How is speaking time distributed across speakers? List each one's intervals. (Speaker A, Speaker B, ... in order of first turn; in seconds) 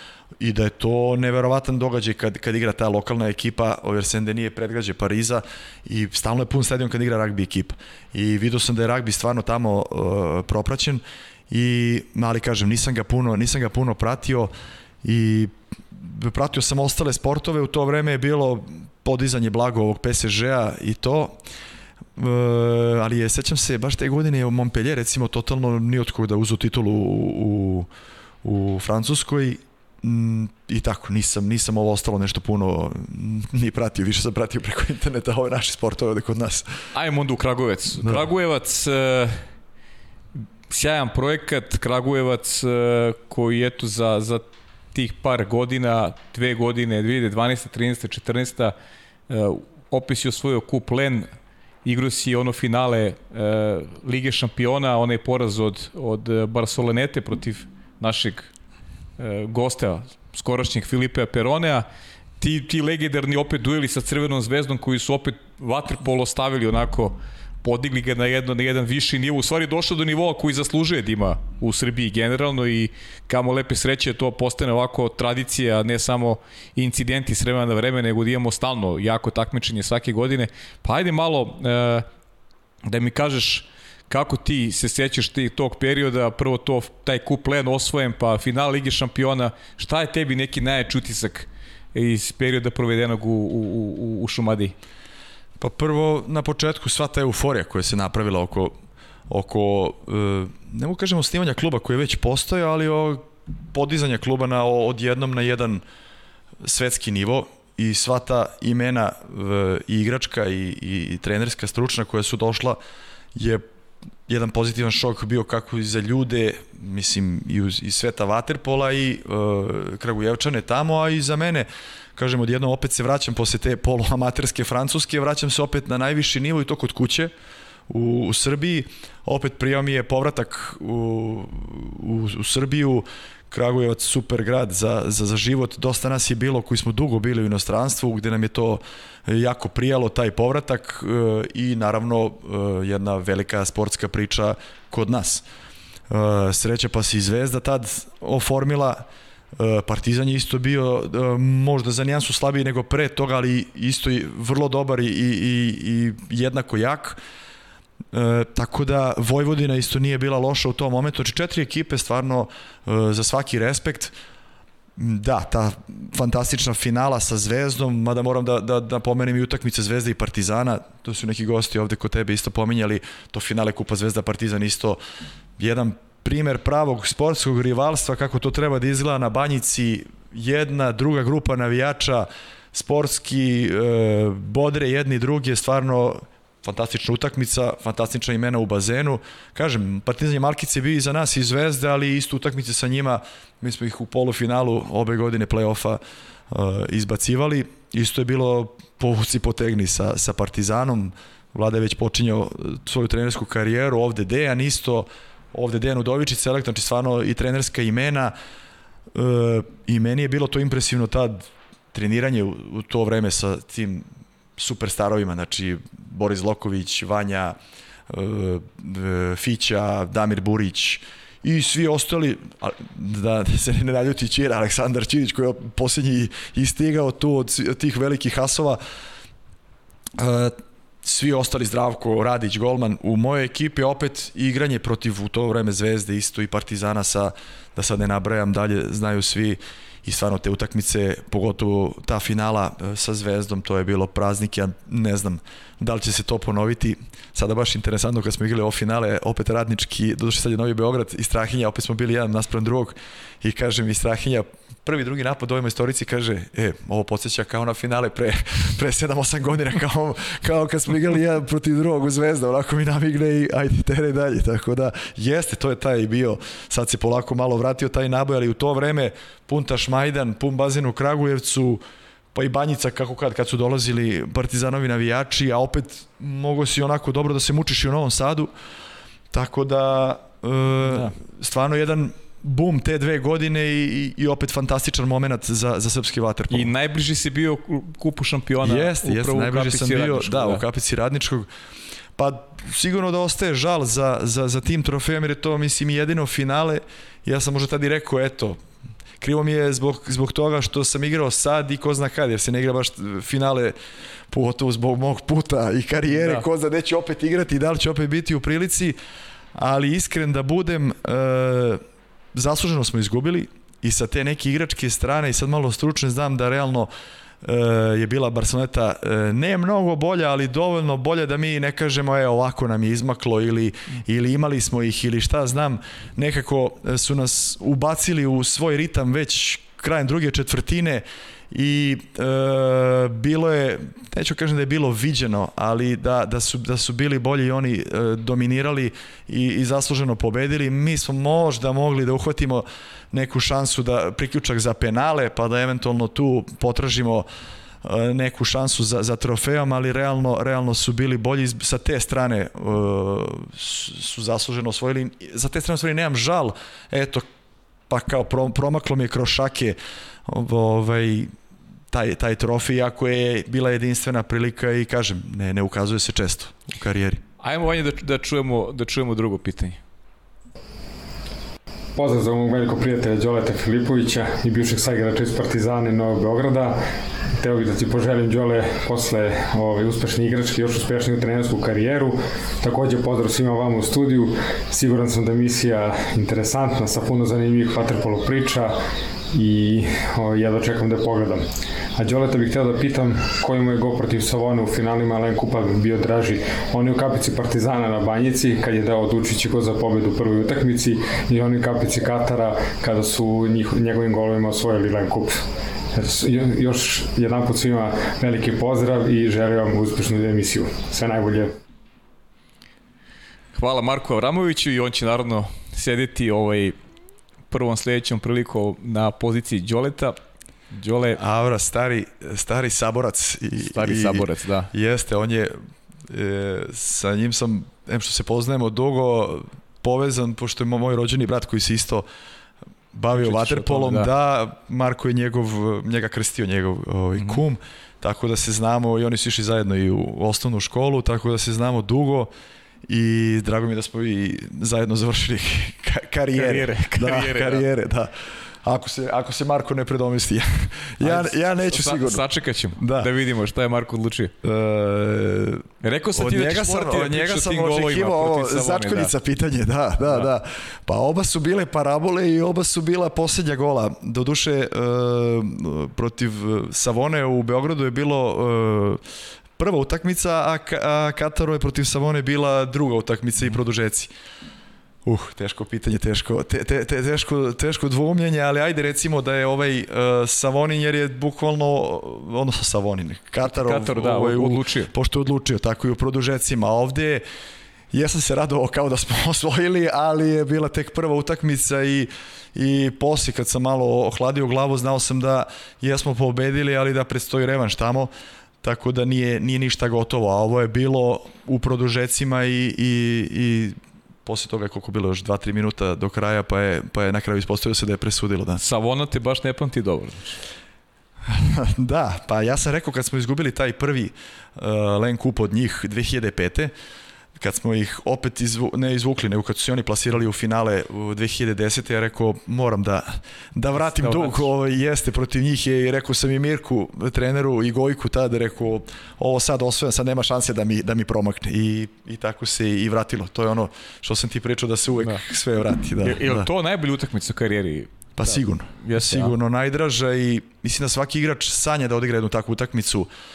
Speaker A: 0.4-21.4, 22.1-27.9, 28.4-36.8, 95.6-98.7, 99.3-105.8, 106.6-112.8, 113.3-113.6, 114.3-127.3, 127.9-145.4, 146.1-157.2, 158.1-164.1, 165.0-175.0, 175.6-208.3, 209.1-214.1, 214.6-217.6, 218.1-228.8, 230.2-271.8, 272.3-278.5, 279.3-286.7, 288.6-291.5, 292.2-298.6, 299.2-303.7, 304.3-309.0, 309.5-311.8, 312.3-316.9, 317.4-347.3, 347.8-357.2, 357.9-361.3, 361.9-367.2, 421.2-432.1, 432.9-442.3, 442.9-452.2, 452.8-453.1, 454.4-469.0, 469.6-474.1, 475.0-487.2, 487.9-498.1, 498.6-508.6, 511.3-516.7, 517.4-536.5, 538.2-543.1
Speaker B: 36.9-39.4, 40.7-48.7, 49.3-51.3, 51.8-58.5, 59.2-61.8, 62.4-82.0, 82.8-94.7, 286.5-290.6, 306.1-306.4, 367.4-369.8, 413.5-416.8, 417.5-420.2, 420.7-421.2, 423.6-424.7, 433.1-434.1, 446.3-447.6, 451.0-454.3, 455.8-459.1, 483.4-484.9, 508.6-510.4, 523.8-524.5, 536.0-539.3
Speaker C: 371.9-388.8, 389.3-405.4, 405.9-411.5